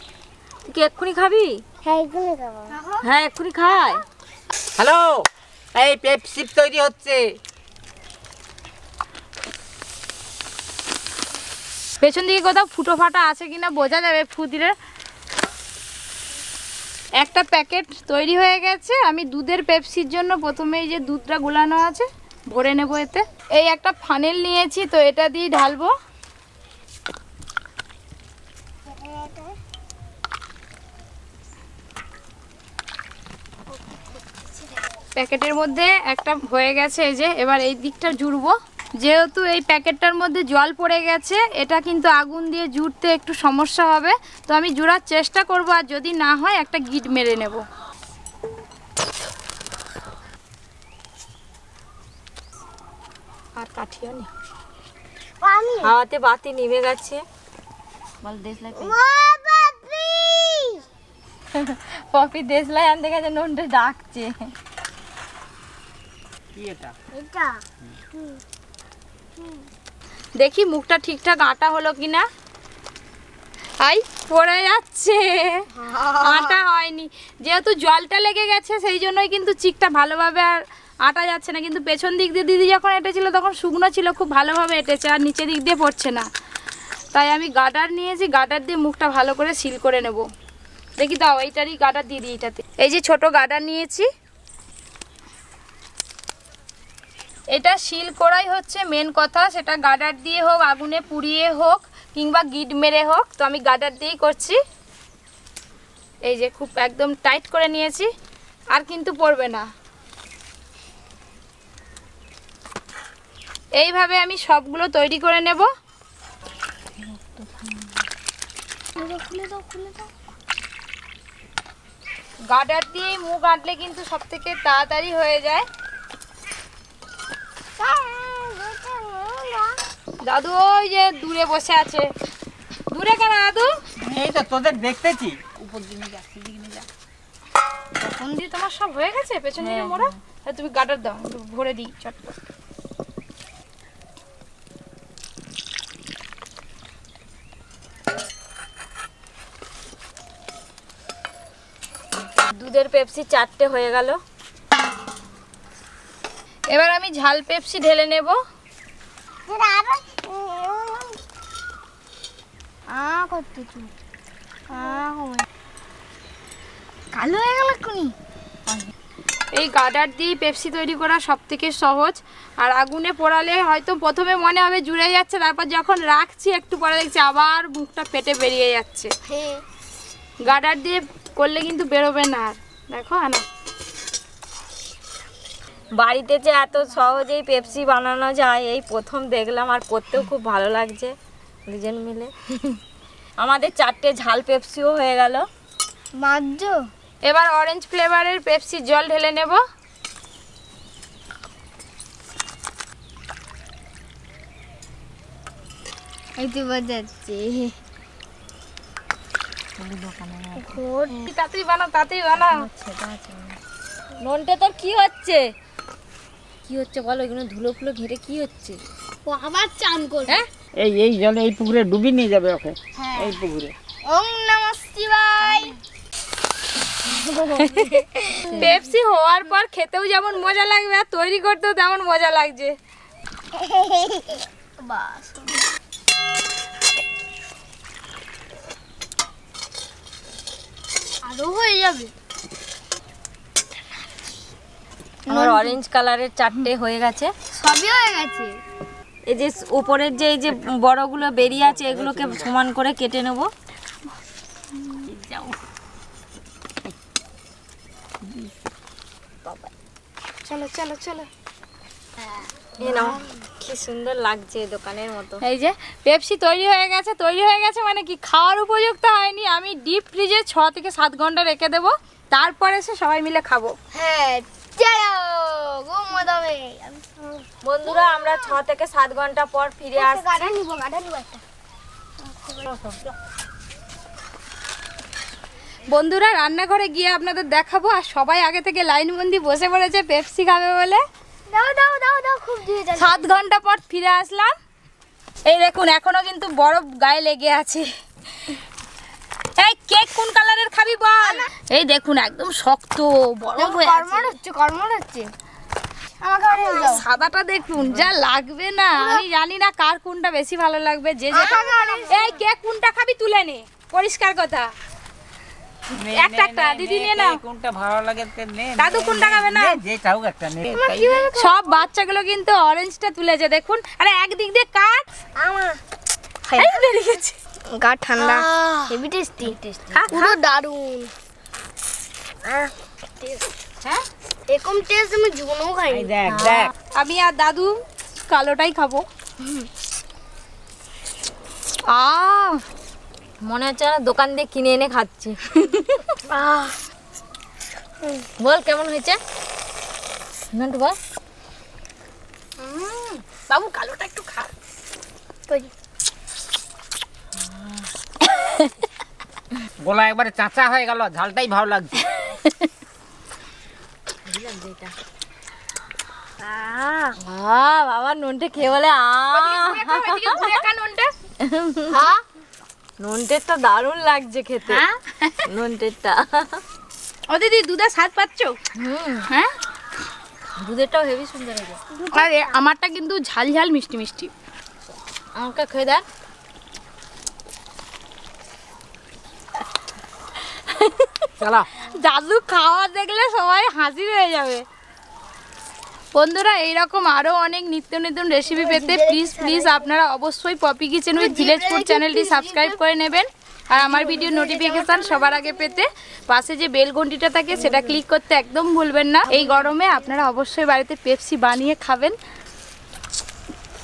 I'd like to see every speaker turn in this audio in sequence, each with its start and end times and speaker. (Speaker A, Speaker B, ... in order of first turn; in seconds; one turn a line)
Speaker A: 0.7-1.6
Speaker B: 1.8-3.0
Speaker A: 3.0-4.0
Speaker C: 4.8-7.3
Speaker D: 12.0-14.7
Speaker D: 17.2-25.9
Speaker B: 28.9-29.5
Speaker D: 35.2-47.6
Speaker D: 53.6-54.3
Speaker B: 55.4-55.9
Speaker A: 55.8-57.2
Speaker A: 58.2-59.0
Speaker B: 58.8-60.8
Speaker A: 61.6-64.3
Speaker C: 66.5-67.0
Speaker B: 67.1-67.6
Speaker D: 70.4-72.2
Speaker D: 73.8-75.7
Speaker B: 75.7-76.5
Speaker D: 76.2-86.3
Speaker D: 87.1-90.2
Speaker D: 91.0-94.1
Speaker D: 97.5-104.6
Speaker D: 106.3-108.1
Speaker D: 108.7-109.7
Speaker D: 113.8-115.7
Speaker A: 117.0-118.0
Speaker B: 119.0-120.1
Speaker D: 122.5-125.7
Speaker B: 127.8-129.8
Speaker D: 130.2-132.1
Speaker D: 132.9-133.7
Speaker C: 134.0-136.9
Speaker D: 138.0-142.3
Speaker A: 139.6-140.1
Speaker A: 152.5-154.2
Speaker D: 156.7-158.4
Speaker B: 159.5-161.2
Speaker B: 162.9-163.9
Speaker B: 164.7-165.5
Speaker B: 167.1-168.1
Speaker D: 169.6-179.1
Speaker B: 179.3-179.6
Speaker D: 180.4-183.4
Speaker A: 186.0-191.1
Speaker A: 191.7-192.8
Speaker A: 193.4-195.5
Speaker B: 196.2-196.8
Speaker D: 197.3-199.6
Speaker B: 206.4-207.7
Speaker A: 209.8-210.8
Speaker B: 210.6-211.2
Speaker D: 211.2-212.5
Speaker A: 212.4-213.6
Speaker A: 214.2-215.4
Speaker A: 216.7-218.8
Speaker B: 219.3-220.4
Speaker C: 220.8-223.8
Speaker B: 223.0-223.3
Speaker B: 224.1-225.7
Speaker D: 227.6-227.8
Speaker A: 228.0-228.8
Speaker B: 228.3-228.8
Speaker D: 228.4-232.8
Speaker B: 233.6-235.6
Speaker B: 241.3-242.1
Speaker B: 245.3-245.8
Speaker A: 245.3-247.3
Speaker B: 247.6-248.5
Speaker A: 249.3-253.5
Speaker C: 251.7-252.5
Speaker B: 259.5-259.7
Speaker D: 260.4-261.3
Speaker A: 262.8-265.4
Speaker B: 262.9-263.2
Speaker D: 265.4-273.8
Speaker B: 273.9-278.6
Speaker A: 277.6-280.5
Speaker B: 279.9-281.4
Speaker C: 282.6-283.1
Speaker D: 285.9-291.0
Speaker B: 291.5-293.4
Speaker D: 293.0-294.5
Speaker D: 295.5-297.9
Speaker D: 299.6-304.3
Speaker B: 303.6-305.3
Speaker B: 306.2-307.0
Speaker D: 306.5-314.7
Speaker C: 307.8-308.1
Speaker B: 311.3-312.2
Speaker C: 316.0-321.3
Speaker D: 316.1-317.4
Speaker D: 318.8-319.8
Speaker B: 320.7-321.8
Speaker D: 321.4-325.1
Speaker B: 325.4-325.8
Speaker B: 326.5-326.8
Speaker D: 326.6-327.4
Speaker B: 327.7-329.6
Speaker A: 329.4-330.1
Speaker D: 329.9-330.4
Speaker B: 330.1-331.1
Speaker B: 332.4-333.4
Speaker B: 334.5-336.1
Speaker C: 335.9-336.7
Speaker A: 336.3-336.7
Speaker D: 337.0-339.0
Speaker D: 341.9-342.6
Speaker A: 343.4-345.4
Speaker B: 346.3-346.7
Speaker A: 348.4-349.2
Speaker A: 350.5-351.0
Speaker D: 352.6-354.5
Speaker A: 357.4-357.9
Speaker C: 359.8-362.0
Speaker D: 362.1-362.7
Speaker A: 364.3-364.9
Speaker B: 366.4-367.1
Speaker A: 367.2-370.5
Speaker D: 369.3-371.1
Speaker A: 371.4-372.0
Speaker B: 371.9-372.2
Speaker A: 373.0-374.8
Speaker D: 374.7-375.4
Speaker A: 375.5-376.6
Speaker D: 377.3-378.6
Speaker A: 378.8-379.3
Speaker A: 380.6-381.8
Speaker B: 381.9-382.6
Speaker D: 382.1-384.3
Speaker A: 385.4-386.0
Speaker D: 390.7-391.3
Speaker C: 391.4-391.7
Speaker D: 391.8-394.6
Speaker D: 396.1-412.1
Speaker B: 398.5-399.9
Speaker B: 401.1-402.8
Speaker B: 403.7-405.8
Speaker B: 407.5-408.0
Speaker B: 409.3-409.9